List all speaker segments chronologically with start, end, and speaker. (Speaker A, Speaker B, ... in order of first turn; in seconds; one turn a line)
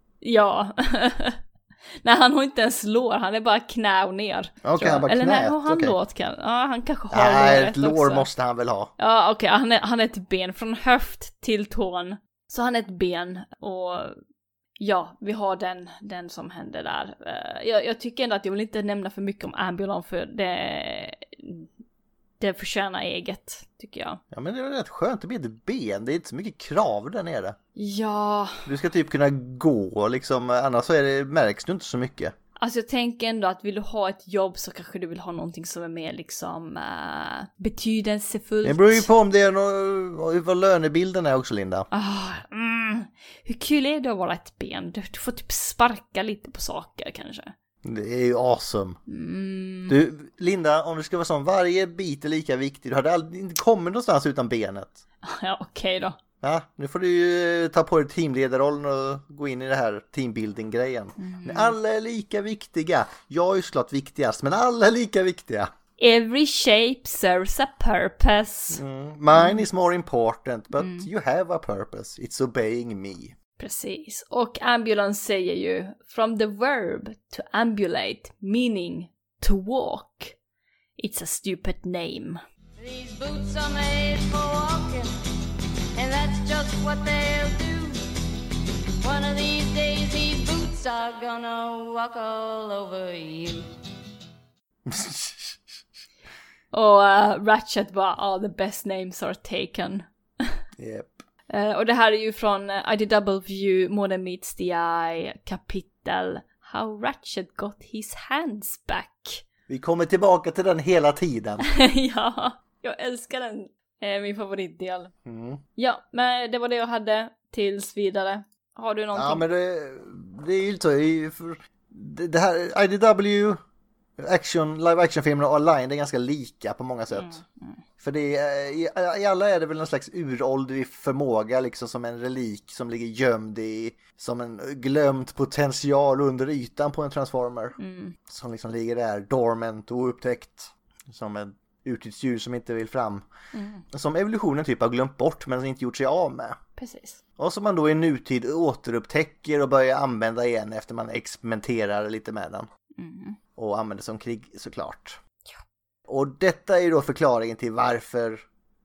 Speaker A: 0.2-1.4
Speaker A: 2.0-8.3
Speaker B: 4.6-6.0
Speaker B: 7.1-8.9
Speaker A: 9.0-14.1
Speaker A: 14.8-21.6
Speaker A: 22.4-24.2
Speaker B: 24.3-27.6
Speaker A: 27.8-28.6
Speaker B: 28.6-32.3
Speaker A: 32.6-39.1
Speaker B: 38.6-41.9
Speaker A: 41.9-47.5
Speaker B: 47.8-49.0
Speaker A: 49.1-50.0
Speaker B: 49.9-55.0
Speaker A: 55.2-56.2
Speaker B: 56.4-65.7
Speaker A: 61.2-61.8
Speaker A: 66.0-68.8
Speaker B: 68.7-73.3
Speaker A: 69.3-69.6
Speaker A: 70.8-71.1
Speaker A: 73.6-80.4
Speaker A: 81.0-82.4
Speaker C: 82.8-85.1
Speaker C: 86.0-88.0
Speaker C: 89.0-93.6
Speaker B: 94.9-95.8
Speaker A: 96.7-100.5
Speaker B: 100.8-101.2
Speaker A: 101.5-109.4
Speaker B: 109.7-111.7
Speaker A: 111.6-115.1
Speaker B: 115.3-115.6
Speaker A: 115.8-119.5
Speaker B: 119.1-123.6
Speaker B: 124.2-127.4
Speaker A: 127.1-127.7
Speaker B: 128.0-143.2
Speaker A: 137.8-138.1
Speaker A: 143.5-143.8
Speaker B: 143.9-146.6
Speaker A: 146.8-147.2
Speaker B: 147.4-152.7
Speaker A: 153.0-153.4
Speaker B: 153.6-155.2
Speaker B: 156.1-158.4